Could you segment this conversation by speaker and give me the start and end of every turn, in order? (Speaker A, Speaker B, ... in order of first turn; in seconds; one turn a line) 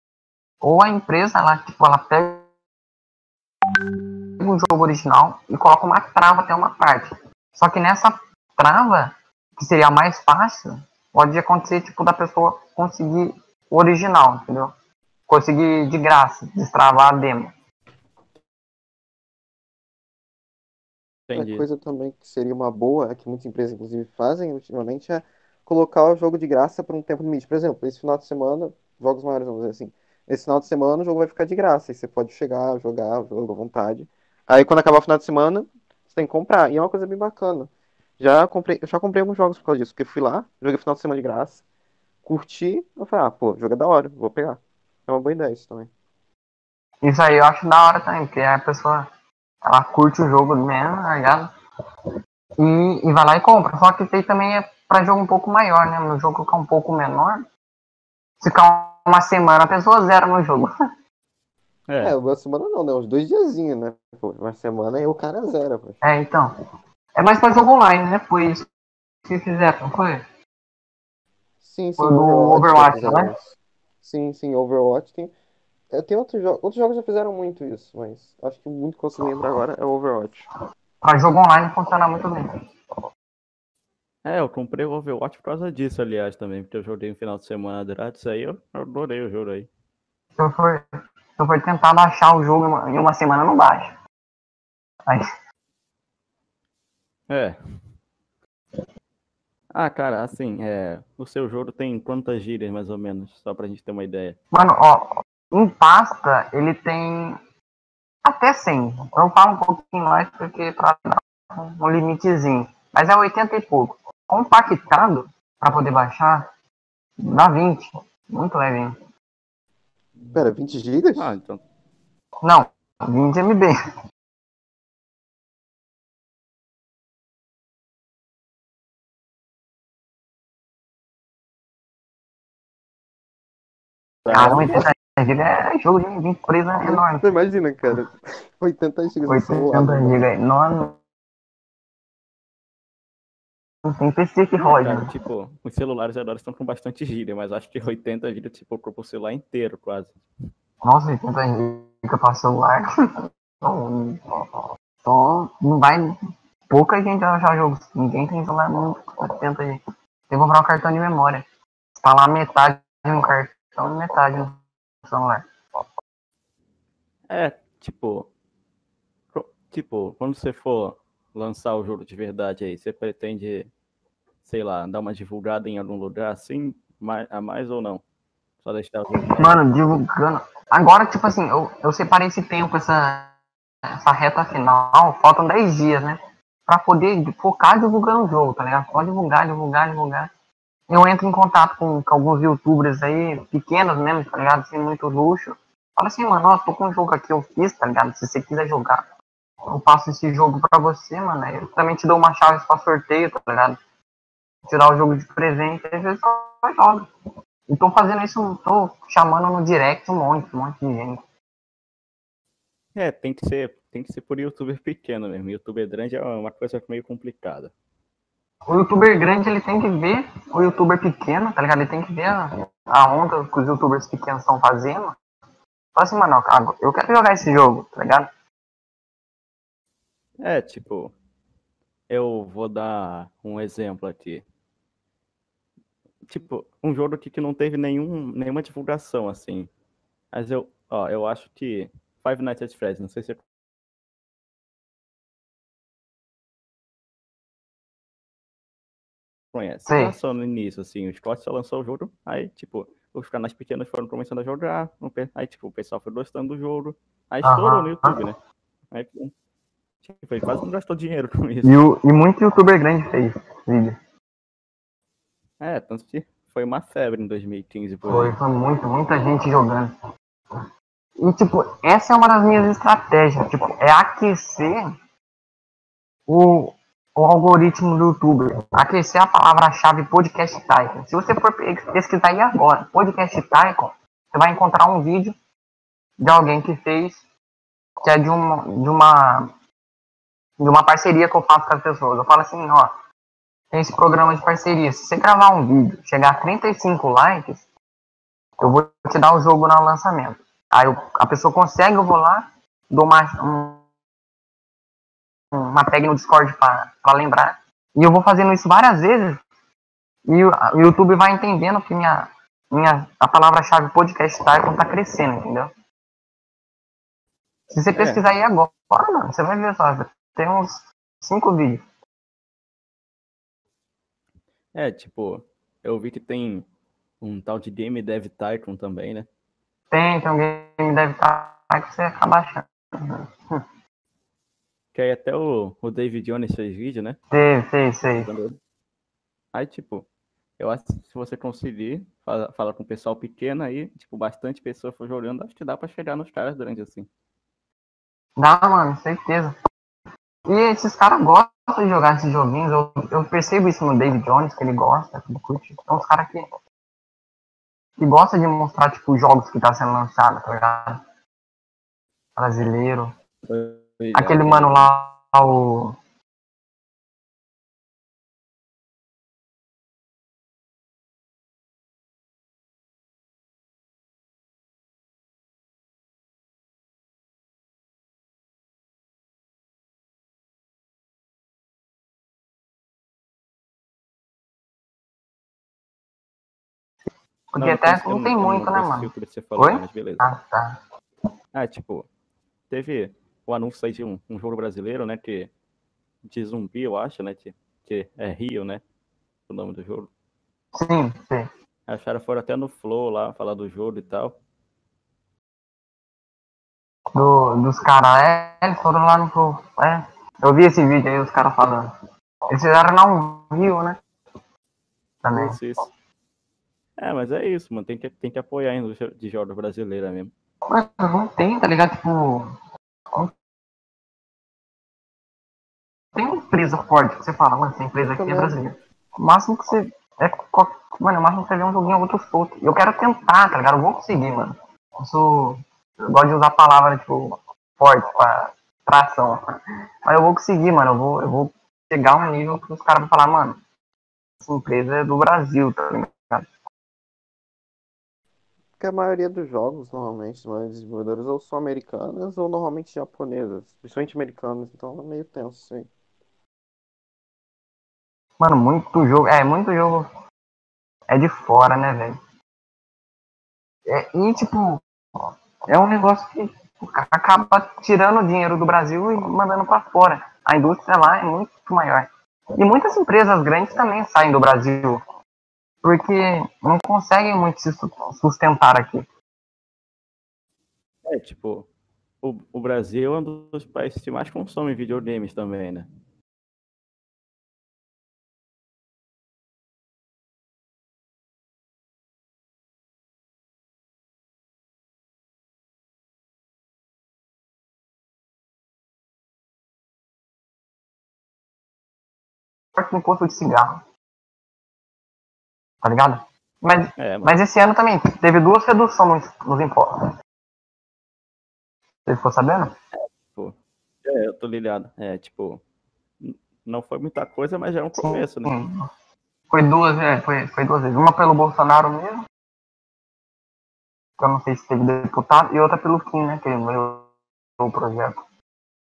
Speaker A: 0.6-2.4
Speaker A: 4.4-14.7
Speaker A: 15.3-17.5
Speaker B: 21.3-21.7
Speaker C: 21.3-41.6
Speaker C: 42.2-45.9
Speaker A: 47.0-49.1
Speaker A: 49.6-51.5
Speaker A: 52.6-57.4
Speaker A: 58.4-60.7
Speaker B: 61.9-62.1
Speaker C: 62.0-66.0
Speaker A: 66.0-66.5
Speaker A: 67.2-68.7
Speaker A: 69.3-70.2
Speaker C: 71.6-75.3
Speaker A: 72.0-73.3
Speaker C: 75.9-80.5
Speaker A: 81.0-82.5
Speaker B: 84.2-89.7
Speaker A: 90.4-90.8
Speaker A: 91.4-94.0
Speaker B: 97.3-97.6
Speaker B: 99.7-104.4
Speaker A: 104.5-107.4
Speaker A: 108.2-116.5
Speaker A: 117.2-119.0
Speaker C: 120.3-121.3
Speaker B: 121.2-121.6
Speaker A: 122.4-123.7
Speaker B: 134.2-134.8
Speaker A: 134.3-137.3
Speaker C: 136.8-140.3
Speaker A: 139.3-141.0
Speaker A: 143.8-145.1
Speaker B: 144.6-150.2
Speaker A: 150.8-154.2
Speaker A: 155.0-156.1
Speaker A: 156.7-161.4
Speaker A: 162.0-165.4
Speaker B: 167.3-168.3
Speaker B: 169.3-173.7
Speaker B: 174.4-178.0
Speaker B: 178.6-179.6
Speaker A: 179.2-183.3
Speaker A: 184.0-190.3
Speaker A: 190.9-199.0
Speaker A: 199.7-203.8
Speaker A: 204.7-207.1
Speaker A: 207.7-211.2
Speaker B: 212.9-217.7
Speaker A: 218.7-225.2
Speaker A: 225.9-228.3
Speaker B: 230.4-231.1
Speaker B: 232.1-234.4
Speaker B: 236.3-239.7
Speaker B: 240.3-243.4
Speaker B: 249.5-258.4
Speaker A: 249.8-250.1
Speaker A: 257.4-258.2
Speaker B: 258.9-259.3
Speaker B: 260.0-261.8
Speaker A: 261.6-263.9
Speaker B: 265.6-268.4
Speaker A: 268.1-269.9
Speaker A: 271.2-274.9
Speaker A: 276.3-285.3
Speaker A: 286.2-287.2
Speaker A: 288.0-289.5
Speaker A: 290.6-292.9
Speaker A: 293.7-297.7
Speaker A: 298.6-303.8
Speaker A: 305.5-309.4
Speaker A: 310.3-315.7
Speaker A: 317.7-321.8
Speaker B: 317.9-318.2
Speaker B: 324.7-326.6
Speaker B: 327.2-329.3
Speaker A: 329.9-333.6
Speaker B: 334.9-337.2
Speaker A: 337.3-338.3
Speaker B: 338.2-338.6
Speaker B: 339.5-340.1
Speaker B: 340.6-347.1
Speaker A: 348.4-349.6
Speaker A: 350.5-356.5
Speaker A: 358.0-361.0
Speaker A: 362.4-363.1
Speaker B: 363.5-364.9
Speaker A: 364.1-365.9
Speaker A: 387.5-390.8
Speaker B: 387.6-390.2
Speaker B: 391.5-392.1
Speaker B: 392.7-395.5
Speaker B: 396.2-398.8
Speaker B: 399.5-400.1
Speaker A: 400.7-401.5
Speaker B: 401.9-404.3
Speaker A: 407.1-411.9
Speaker A: 412.5-414.0
Speaker A: 415.2-415.6
Speaker B: 415.3-415.9
Speaker B: 417.0-420.3
Speaker A: 420.7-422.5
Speaker A: 426.1-443.6
Speaker C: 428.1-428.6
Speaker A: 444.4-446.5
Speaker C: 448.8-455.9
Speaker A: 458.4-460.1
Speaker A: 461.1-462.2
Speaker A: 463.9-464.8
Speaker A: 465.7-475.0
Speaker A: 475.8-479.1
Speaker B: 481.1-481.7
Speaker B: 482.2-485.9
Speaker A: 502.7-503.8
Speaker A: 505.8-510.1
Speaker B: 507.0-507.4
Speaker A: 512.0-512.7
Speaker B: 513.3-515.6
Speaker B: 516.2-518.5
Speaker A: 518.0-518.9
Speaker A: 519.5-522.2
Speaker A: 524.2-528.2